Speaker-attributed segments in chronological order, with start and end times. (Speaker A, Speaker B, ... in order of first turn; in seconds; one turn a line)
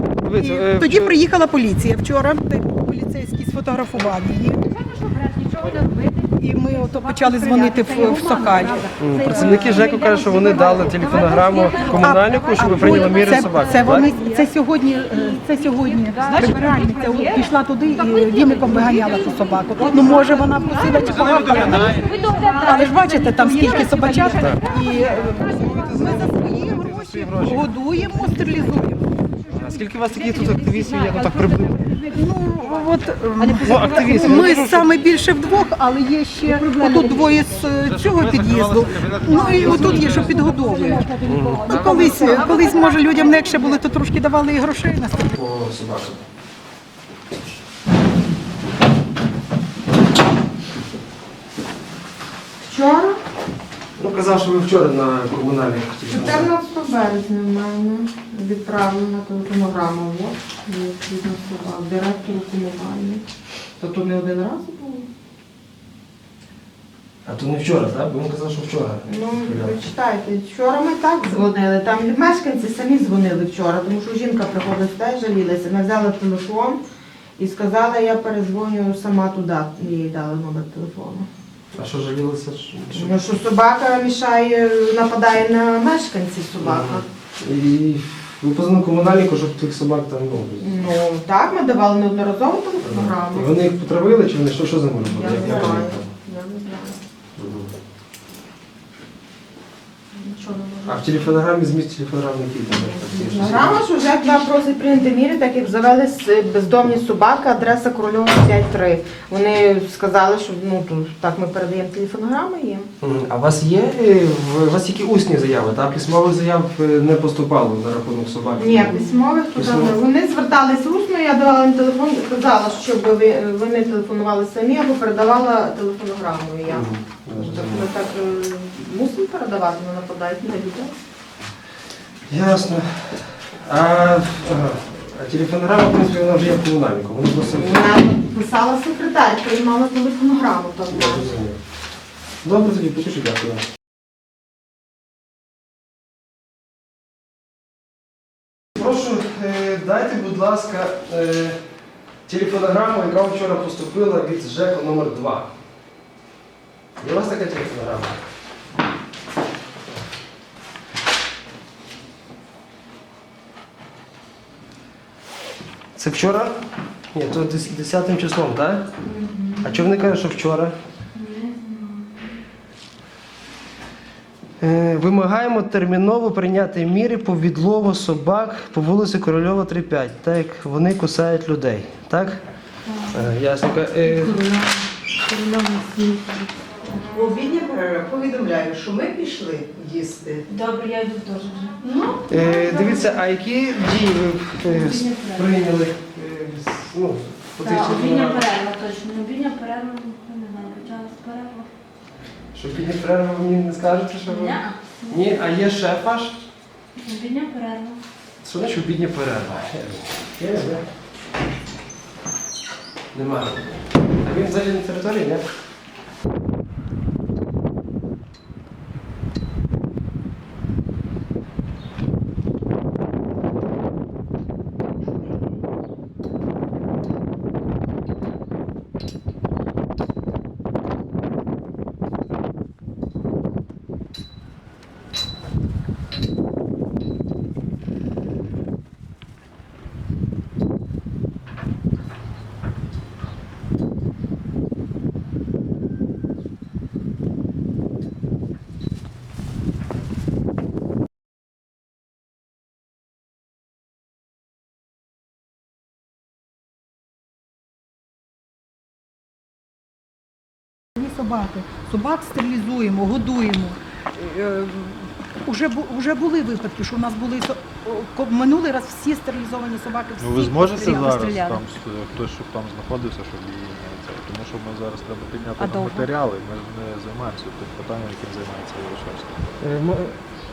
Speaker A: 0.2-1.1
Speaker B: 0.3-4.6
Speaker C: 4.6-13.6
Speaker B: 6.4-9.9
Speaker A: 9.0-14.2
Speaker B: 11.8-29.1
Speaker C: 16.3-17.4
Speaker C: 18.5-19.0
Speaker C: 21.1-24.8
Speaker A: 24.4-24.7
Speaker A: 25.3-27.7
Speaker A: 29.5-31.8
Speaker C: 30.2-31.7
Speaker B: 31.8-45.3
Speaker A: 33.4-34.9
Speaker A: 41.2-42.1
Speaker A: 45.3-46.2
Speaker D: 52.6-53.2
Speaker A: 54.0-56.5
Speaker D: 56.1-63.2
Speaker D: 63.8-65.0
Speaker A: 67.2-69.7
Speaker D: 69.0-76.8
Speaker D: 77.4-81.3
Speaker A: 81.7-83.2
Speaker D: 82.9-87.0
Speaker A: 86.6-90.9
Speaker D: 90.6-93.5
Speaker A: 92.8-96.1
Speaker D: 95.0-97.0
Speaker A: 97.4-97.7
Speaker D: 100.1-101.3
Speaker A: 100.9-103.8
Speaker D: 102.7-112.9
Speaker A: 113.0-120.0
Speaker D: 118.6-130.9
Speaker A: 126.7-127.9
Speaker A: 132.3-137.9
Speaker D: 137.5-141.4
Speaker A: 140.9-141.6
Speaker A: 142.4-143.7
Speaker A: 148.8-151.6
Speaker A: 152.3-155.5
Speaker A: 157.0-158.2
Speaker A: 165.9-166.6
Speaker A: 167.1-168.9
Speaker D: 169.1-169.6
Speaker A: 169.6-170.8
Speaker A: 174.6-182.4
Speaker A: 183.1-184.6
Speaker B: 187.5-189.2
Speaker B: 189.8-190.3
Speaker C: 190.8-191.4
Speaker B: 191.8-192.2
Speaker A: 192.3-198.6
Speaker C: 198.7-199.0
Speaker C: 200.4-201.2
Speaker A: 202.5-206.4
Speaker A: 208.4-210.8
Speaker A: 213.1-215.4
Speaker B: 261.0-271.4
Speaker E: 270.2-279.5
Speaker C: 270.8-271.6
Speaker C: 275.6-276.1
Speaker A: 279.6-280.2